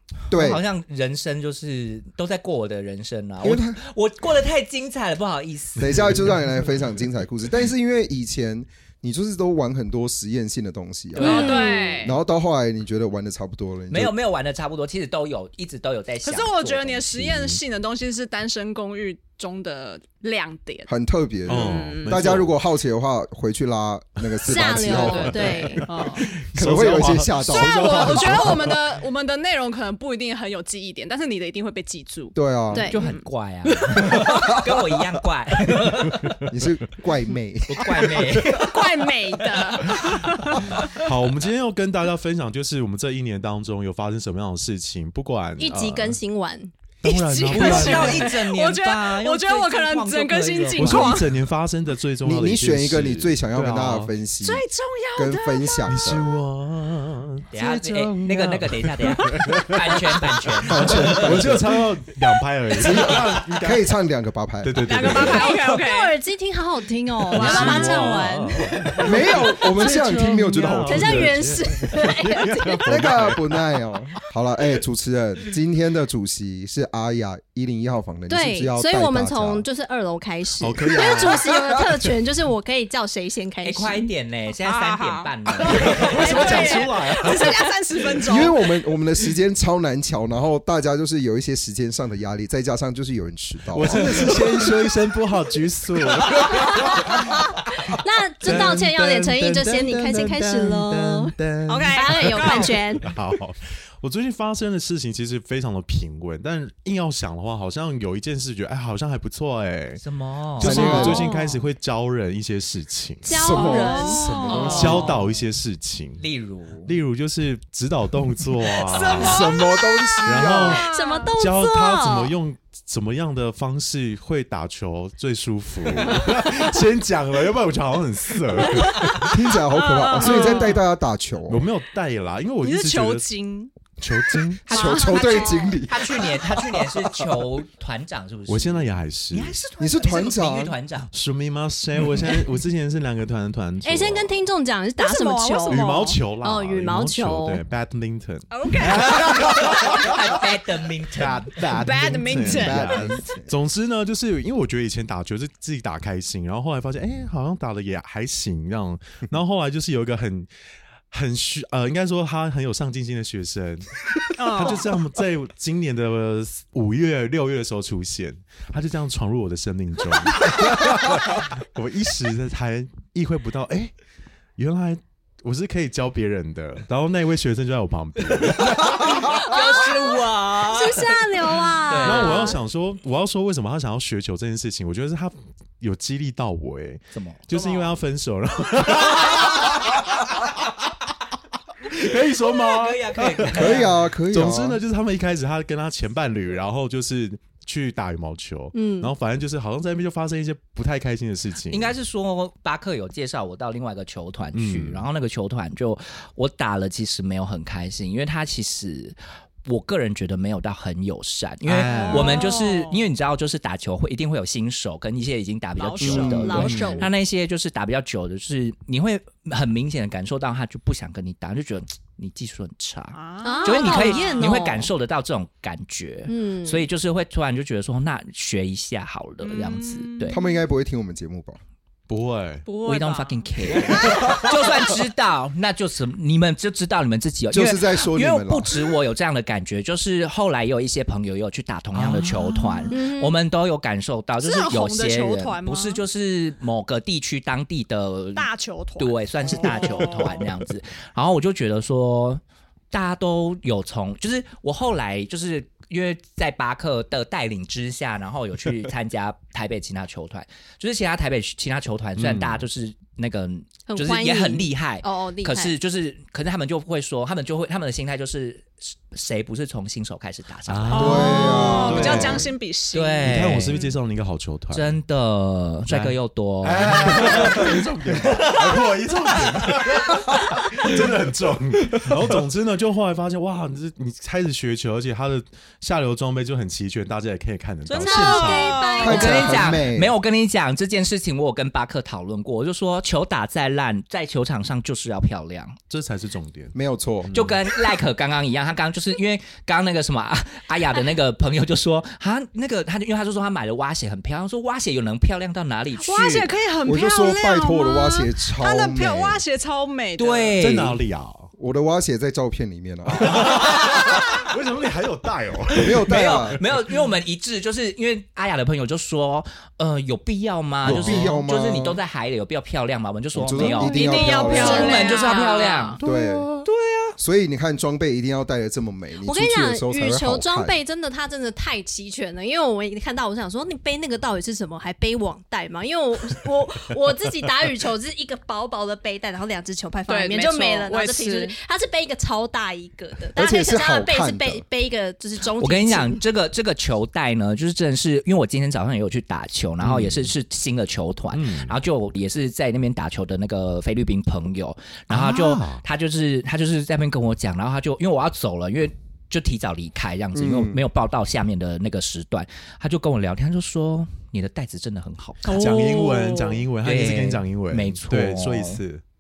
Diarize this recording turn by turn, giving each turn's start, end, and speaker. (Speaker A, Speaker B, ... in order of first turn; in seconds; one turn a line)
Speaker A: 0.3-0.6
Speaker B: 0.3-6.0
Speaker A: 3.4-3.8
Speaker A: 5.8-14.1
Speaker B: 11.1-11.7
Speaker C: 11.2-12.0
Speaker D: 11.2-12.2
Speaker B: 13.9-17.6
Speaker D: 16.2-20.9
Speaker A: 20.9-25.8
Speaker D: 21.5-22.2
Speaker E: 21.5-22.6
Speaker C: 24.4-26.0
Speaker E: 24.9-28.8
Speaker D: 25.9-26.3
Speaker A: 26.5-28.6
Speaker D: 27.4-32.4
Speaker A: 32.4-32.9
Speaker C: 32.7-33.1
Speaker B: 32.9-36.3
Speaker D: 33.0-33.3
Speaker E: 36.1-36.5
Speaker A: 36.5-38.0
Speaker B: 37.7-38.8
Speaker E: 38.1-38.8
Speaker D: 38.6-40.7
Speaker E: 39.8-46.2
Speaker C: 45.6-46.7
Speaker E: 47.0-48.3
Speaker D: 47.0-51.3
Speaker B: 47.5-51.2
Speaker E: 50.8-54.1
Speaker A: 52.2-54.6
Speaker D: 54.4-55.8
Speaker A: 55.1-56.3
Speaker E: 55.9-63.9
Speaker B: 57.5-61.2
Speaker A: 60.7-61.9
Speaker A: 62.8-65.3
Speaker E: 64.6-65.5
Speaker D: 64.8-66.2
Speaker C: 65.2-69.1
Speaker E: 67.3-74.2
Speaker D: 67.3-68.2
Speaker A: 69.0-71.5
Speaker C: 70.8-73.0
Speaker A: 72.9-79.7
Speaker C: 78.3-84.1
Speaker E: 80.6-81.5
Speaker A: 80.9-81.8
Speaker B: 83.6-86.8
Speaker D: 84.6-88.6
Speaker E: 85.7-88.2
Speaker C: 86.5-86.8
Speaker A: 88.3-94.5
Speaker E: 93.7-97.3
Speaker C: 96.7-97.3
Speaker C: 97.8-101.3
Speaker E: 98.4-110.0
Speaker D: 101.7-102.9
Speaker C: 101.9-103.2
Speaker B: 110.0-111.1
Speaker E: 110.6-116.2
Speaker A: 110.6-111.3
Speaker C: 110.8-111.6
Speaker C: 113.2-115.1
Speaker A: 113.3-115.1
Speaker D: 113.5-115.0
Speaker B: 114.6-115.2
Speaker B: 116.2-116.9
Speaker E: 116.9-119.5
Speaker C: 118.8-119.6
Speaker D: 118.9-119.5
Speaker A: 119.1-120.8
Speaker E: 120.2-129.3
Speaker D: 120.5-121.3
Speaker C: 120.7-122.3
Speaker D: 128.6-130.8
Speaker A: 129.2-131.7
Speaker E: 130.4-130.7
Speaker E: 131.5-133.3
Speaker D: 132.6-133.7
Speaker E: 134.0-134.7
Speaker A: 134.7-137.2
Speaker C: 134.7-135.7
Speaker D: 134.7-135.4
Speaker B: 134.9-141.1
Speaker E: 138.5-139.6
Speaker A: 139.8-140.8
Speaker E: 141.1-144.3
Speaker C: 143.8-147.6
Speaker D: 145.0-146.2
Speaker E: 145.7-150.3
Speaker D: 148.5-150.0
Speaker B: 149.4-151.6
Speaker E: 151.1-160.5
Speaker D: 151.8-153.1
Speaker A: 152.4-153.5
Speaker E: 161.1-173.9
Speaker D: 164.4-164.9
Speaker E: 174.6-179.4
Speaker B: 178.4-181.2
Speaker C: 180.6-182.6
Speaker B: 181.9-182.6
Speaker E: 182.0-190.0
Speaker B: 187.1-187.9
Speaker E: 191.8-201.9
Speaker B: 192.5-193.9
Speaker A: 193.5-194.8
Speaker C: 198.7-199.1
Speaker B: 201.7-230.4
Speaker E: 204.5-205.1
Speaker E: 211.7-212.5
Speaker D: 211.9-213.1
Speaker D: 215.8-216.8
Speaker A: 216.0-217.0
Speaker C: 216.2-217.1
Speaker D: 223.1-224.7
Speaker C: 223.4-224.9
Speaker C: 226.3-226.9
Speaker D: 229.4-230.7
Speaker A: 230.3-231.6
Speaker E: 232.1-232.7
Speaker D: 232.7-234.5
Speaker B: 232.8-272.4
Speaker A: 237.5-238.8
Speaker E: 241.9-242.9
Speaker C: 242.9-243.4
Speaker D: 244.4-246.0
Speaker D: 248.4-250.5
Speaker E: 262.2-262.6
Speaker C: 263.9-265.8
Speaker E: 270.7-272.5
Speaker D: 270.9-273.9
Speaker A: 270.9-272.4
Speaker B: 272.9-273.8
Speaker E: 273.2-275.0
Speaker B: 274.7-277.7
Speaker E: 275.9-289.0
Speaker D: 287.9-289.4
Speaker C: 288.0-289.7
Speaker B: 289.0-295.8
Speaker A: 289.0-290.1
Speaker E: 295.9-297.6
Speaker A: 296.7-297.3
Speaker B: 297.3-306.5
Speaker D: 306.0-310.6
Speaker A: 306.9-309.4
Speaker B: 310.2-311.0
Speaker E: 310.6-311.5
Speaker A: 311.6-313.9
Speaker E: 313.1-317.0
Speaker A: 315.8-316.6
Speaker B: 316.1-326.0
Speaker E: 320.8-321.4
Speaker A: 320.8-322.0
Speaker A: 323.4-325.0
Speaker C: 323.7-325.7
Speaker D: 323.8-326.0
Speaker A: 326.0-326.5
Speaker E: 326.2-326.7
Speaker A: 327.2-330.8
Speaker C: 329.2-346.2
Speaker D: 340.1-341.6
Speaker A: 343.4-344.6
Speaker B: 345.6-365.6
Speaker E: 349.8-350.3
Speaker E: 351.3-351.8
Speaker E: 355.1-355.8
Speaker A: 360.3-360.8
Speaker D: 365.4-366.7
Speaker E: 365.5-369.0
Speaker B: 366.8-368.8